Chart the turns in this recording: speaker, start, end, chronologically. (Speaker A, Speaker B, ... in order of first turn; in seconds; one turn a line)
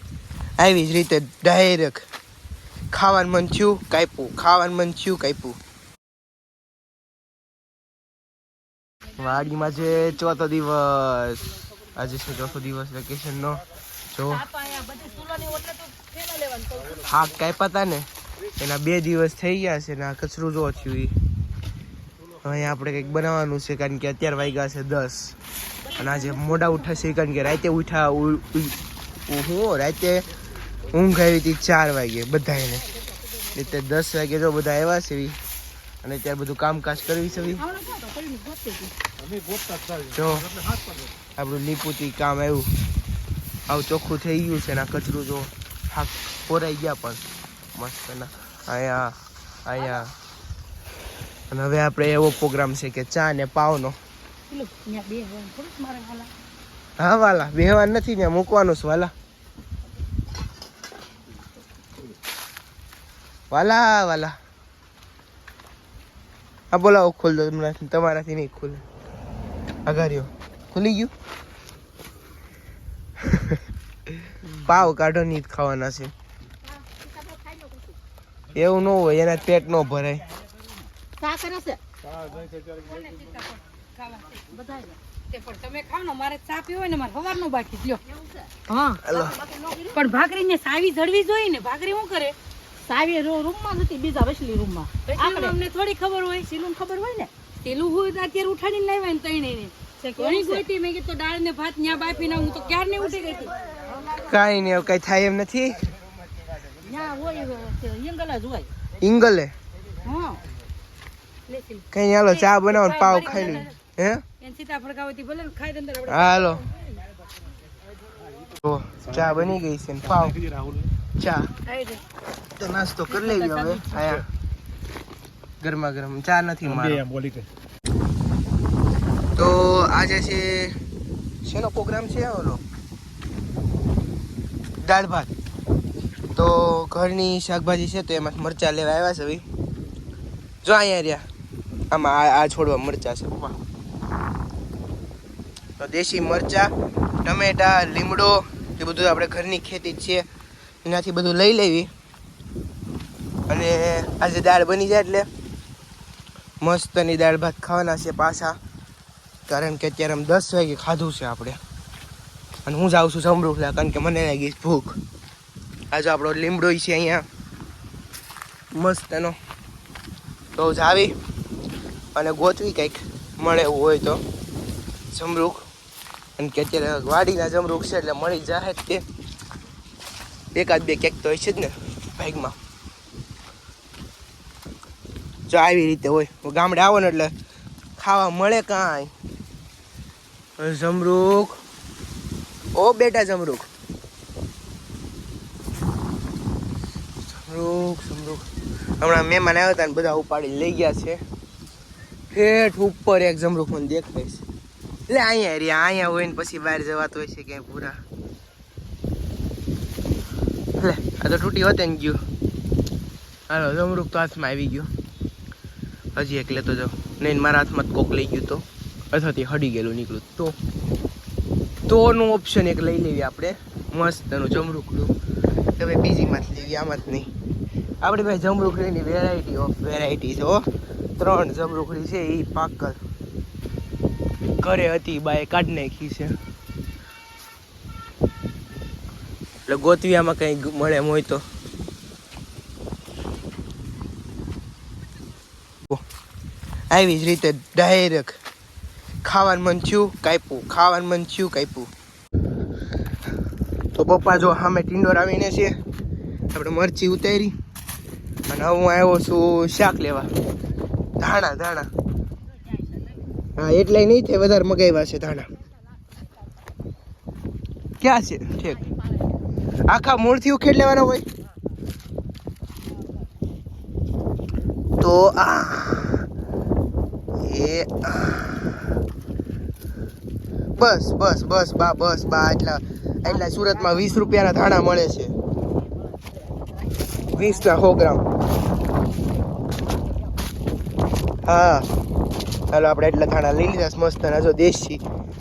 Speaker A: 0.6-2.0
Speaker A: 2.9-5.6
Speaker A: 9.2-11.4
Speaker A: 11.9-14.4
Speaker B: 14.3-17.0
Speaker A: 17.0-18.1
Speaker A: 18.6-21.1
Speaker A: 22.4-25.4
Speaker A: 25.9-28.8
Speaker A: 29.3-30.2
Speaker A: 30.9-32.8
Speaker A: 33.5-35.4
Speaker A: 36.0-37.6
Speaker C: 37.5-38.9
Speaker A: 40.1-40.5
Speaker A: 41.4-42.7
Speaker A: 43.7-47.2
Speaker A: 47.7-50.1
Speaker A: 51.5-54.0
Speaker B: 54.5-56.3
Speaker A: 57.0-59.1
Speaker A: 63.5-64.3
Speaker A: 66.7-68.8
Speaker A: 69.8-71.1
Speaker A: 73.3-73.6
Speaker A: 74.5-76.1
Speaker C: 76.8-78.0
Speaker A: 78.5-80.2
Speaker C: 81.2-81.8
Speaker B: 82.4-84.5
Speaker C: 84.5-85.0
Speaker B: 85.3-88.0
Speaker C: 88.1-88.5
Speaker B: 88.7-89.0
Speaker A: 89.0-89.3
Speaker C: 89.1-90.0
Speaker B: 89.9-92.3
Speaker C: 92.8-97.3
Speaker B: 95.1-96.2
Speaker B: 97.6-103.5
Speaker C: 100.2-100.6
Speaker C: 103.4-104.3
Speaker A: 104.2-105.9
Speaker C: 106.7-108.7
Speaker A: 109.0-109.5
Speaker C: 110.0-110.4
Speaker B: 111.5-113.8
Speaker A: 111.9-114.2
Speaker B: 114.4-116.8
Speaker A: 116.1-116.6
Speaker A: 118.6-120.4
Speaker A: 121.2-121.5
Speaker B: 121.7-122.0
Speaker A: 122.5-124.2
Speaker B: 123.1-124.1
Speaker A: 125.6-127.0
Speaker A: 129.3-130.8
Speaker A: 131.4-132.6
Speaker A: 134.8-135.3
Speaker A: 136.3-139.4
Speaker A: 140.6-141.2
Speaker A: 141.9-143.5
Speaker A: 145.8-146.7
Speaker A: 147.2-150.2
Speaker A: 150.8-151.9
Speaker A: 153.5-155.3
Speaker A: 156.6-158.6
Speaker A: 159.5-161.6
Speaker A: 162.7-165.0
Speaker A: 165.9-167.2
Speaker A: 168.7-169.4
Speaker A: 170.6-171.1
Speaker A: 172.1-174.2
Speaker A: 175.1-175.7
Speaker A: 176.4-179.0
Speaker A: 180.5-182.5
Speaker A: 185.5-187.3
Speaker A: 188.0-189.1
Speaker A: 190.6-191.6
Speaker A: 192.7-193.7
Speaker A: 197.3-198.4
Speaker A: 199.0-201.2
Speaker A: 202.3-204.4
Speaker A: 205.1-208.0
Speaker A: 210.8-212.2
Speaker A: 213.5-214.9
Speaker A: 216.2-220.6
Speaker A: 221.9-225.1
Speaker A: 225.8-227.3
Speaker A: 228.0-230.6
Speaker A: 231.2-233.0
Speaker A: 234.6-236.3
Speaker A: 239.7-241.4
Speaker A: 246.9-248.4
Speaker A: 249.2-251.9
Speaker A: 253.9-255.8
Speaker A: 256.5-257.5
Speaker A: 258.5-260.3
Speaker A: 261.2-261.9
Speaker C: 262.7-263.1
Speaker A: 263.6-265.5
Speaker A: 268.0-268.8
Speaker A: 269.9-271.2
Speaker A: 275.0-276.2
Speaker A: 277.4-278.8
Speaker A: 280.8-285.3
Speaker A: 287.3-288.2
Speaker A: 291.4-291.9
Speaker A: 292.7-295.0